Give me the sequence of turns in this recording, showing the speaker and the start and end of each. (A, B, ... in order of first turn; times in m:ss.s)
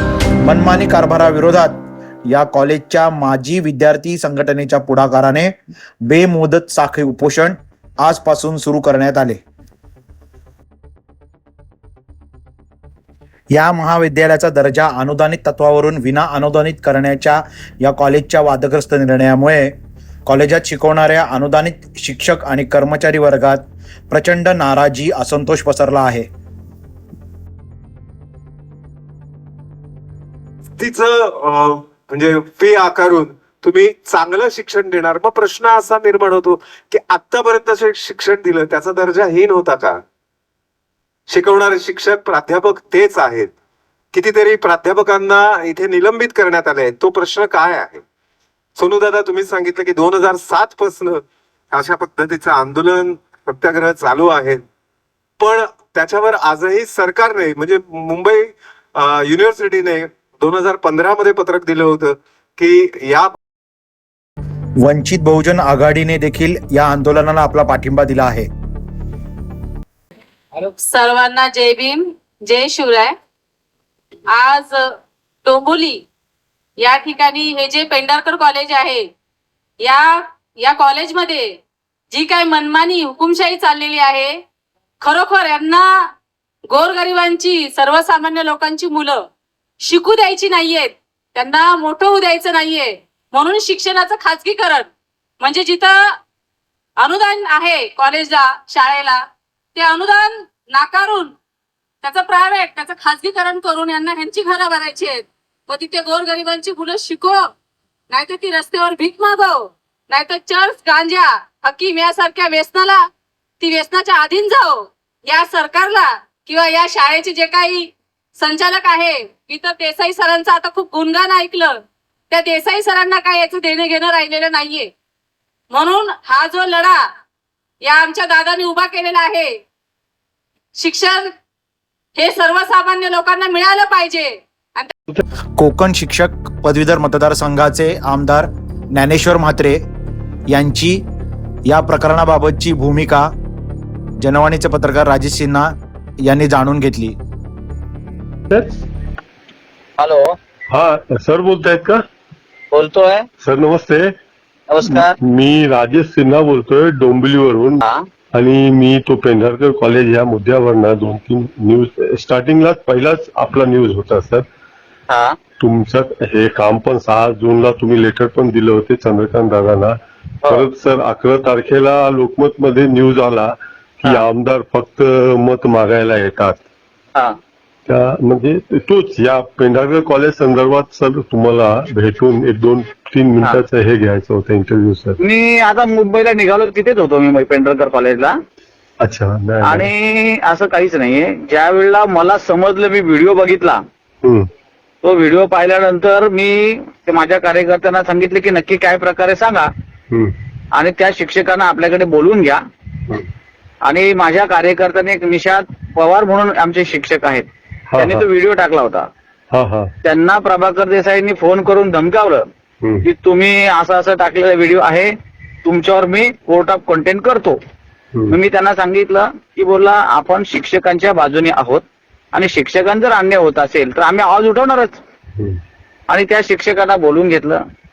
0:00.4-0:01.8 A
0:02.3-0:09.4 A
0:13.5-0:26.3 A
0:30.8-0:40.0 B
0:41.3-0:43.5 B
0:44.1-0:48.0 B
0:48.8-0:54.6 B
0:55.4-1:03.4 B
1:04.8-1:08.5 A
1:10.8-1:13.2 C
1:14.3-1:16.0 C
1:16.8-1:19.1 C
1:19.8-1:24.4 C
1:25.0-1:26.1 C
1:26.7-1:29.3 C
1:29.8-1:34.9 C
1:35.4-1:36.2 C
1:37.0-1:41.4 C
1:42.0-1:47.5 C
1:48.1-1:53.1 C
1:53.6-2:04.9 C
2:05.7-2:07.0 C
2:07.8-2:09.6 C
2:10.7-2:11.3 C
2:12.2-2:14.9 C
2:15.6-2:19.8 A
2:20.5-2:21.0 A
2:21.7-2:23.3 A
2:24.2-2:25.7 A
2:26.2-2:27.2 A
2:28.5-2:28.8 D
2:30.0-2:30.3 E
2:30.7-2:32.0 D
2:32.7-2:33.2 E
2:33.4-2:34.1 D
2:34.7-2:35.2 E
2:34.8-2:44.4 D
2:45.1-2:45.3 E
2:45.6-2:49.9 D
2:50.4-2:50.7 E
2:50.5-2:56.6 D
2:57.9-3:05.2 D
3:05.2-3:08.3 E
3:09.0-3:09.9 D
3:09.6-3:13.8 E
3:14.2-3:14.5 D
3:15.0-3:19.7 E
3:20.1-3:20.4 D
3:20.7-3:22.6 E
3:23.8-3:27.4 E
3:27.9-3:28.2 D
3:28.0-3:29.1 E
3:29.5-3:29.9 D
3:30.0-3:32.4 E
3:33.0-3:35.1 E
3:35.6-3:37.6 E
3:38.3-3:45.0 E
3:46.1-3:47.6 E